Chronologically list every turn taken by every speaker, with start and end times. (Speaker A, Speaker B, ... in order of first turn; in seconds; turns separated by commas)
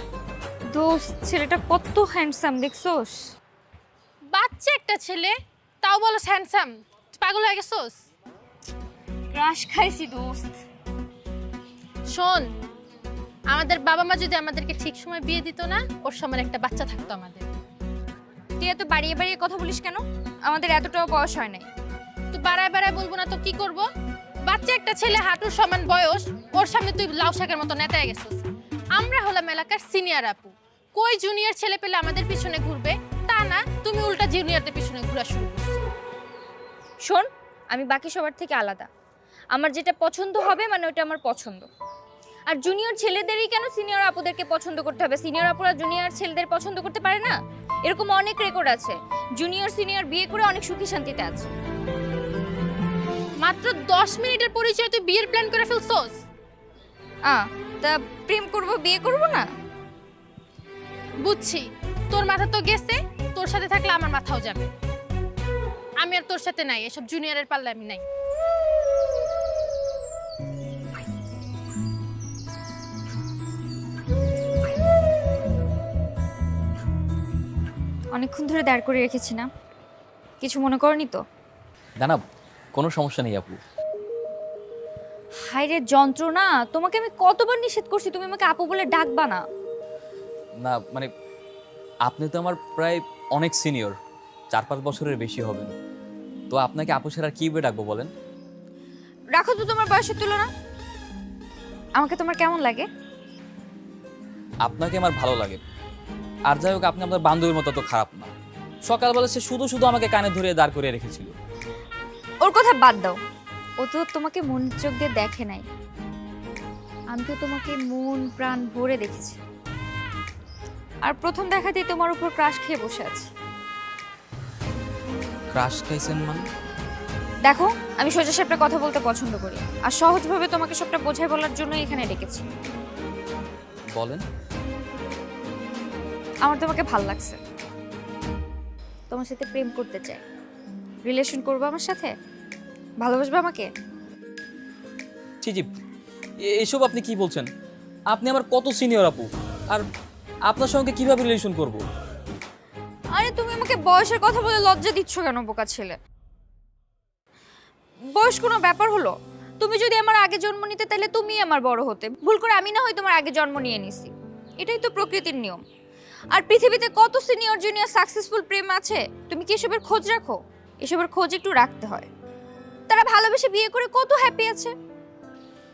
Speaker A: 0.7-3.3, Speaker B: 4.3-5.3, Speaker B: 5.8-7.9, Speaker A: 9.3-10.6, Speaker B: 12.1-12.4, Speaker B: 13.5-17.4, Speaker A: 18.6-21.7, Speaker B: 22.3-23.9, Speaker B: 24.5-35.8, Speaker A: 37.0-38.9, Speaker A: 39.5-41.7, Speaker A: 42.5-47.3, Speaker A: 47.9-51.5, Speaker B: 53.4-56.2, Speaker A: 57.3-59.5, Speaker B: 61.2-64.7, Speaker B: 66.0-68.0, Speaker A: 78.1-79.5, Speaker A: 80.4-81.2, Speaker C: 82.8-83.6, Speaker A: 85.4-89.4, Speaker C: 90.6-91.1, Speaker C: 92.0-94.0, Speaker C: 94.5-95.7, Speaker C: 96.5-98.1, Speaker A: 99.3-100.5, Speaker A: 102.0-102.9, Speaker C: 104.6-105.6, Speaker C: 106.5-108.3, Speaker C: 108.9-111.3, Speaker A: 112.4-113.2, Speaker A: 113.8-115.7, Speaker A: 117.1-119.4, Speaker A: 121.0-123.3, Speaker C: 125.5-126.5, Speaker A: 127.5-132.4, Speaker C: 133.9-134.2, Speaker A: 136.4-137.4, Speaker A: 139.1-140.2, Speaker A: 141.1-142.1, Speaker A: 143.0-143.7, Speaker C: 145.4-145.7, Speaker C: 146.4-147.5, Speaker C: 148.1-149.9, Speaker C: 150.5-151.8, Speaker A: 153.1-156.0, Speaker A: 158.2-165.6, Speaker A: 166.3-172.1, Speaker A: 172.9-174.8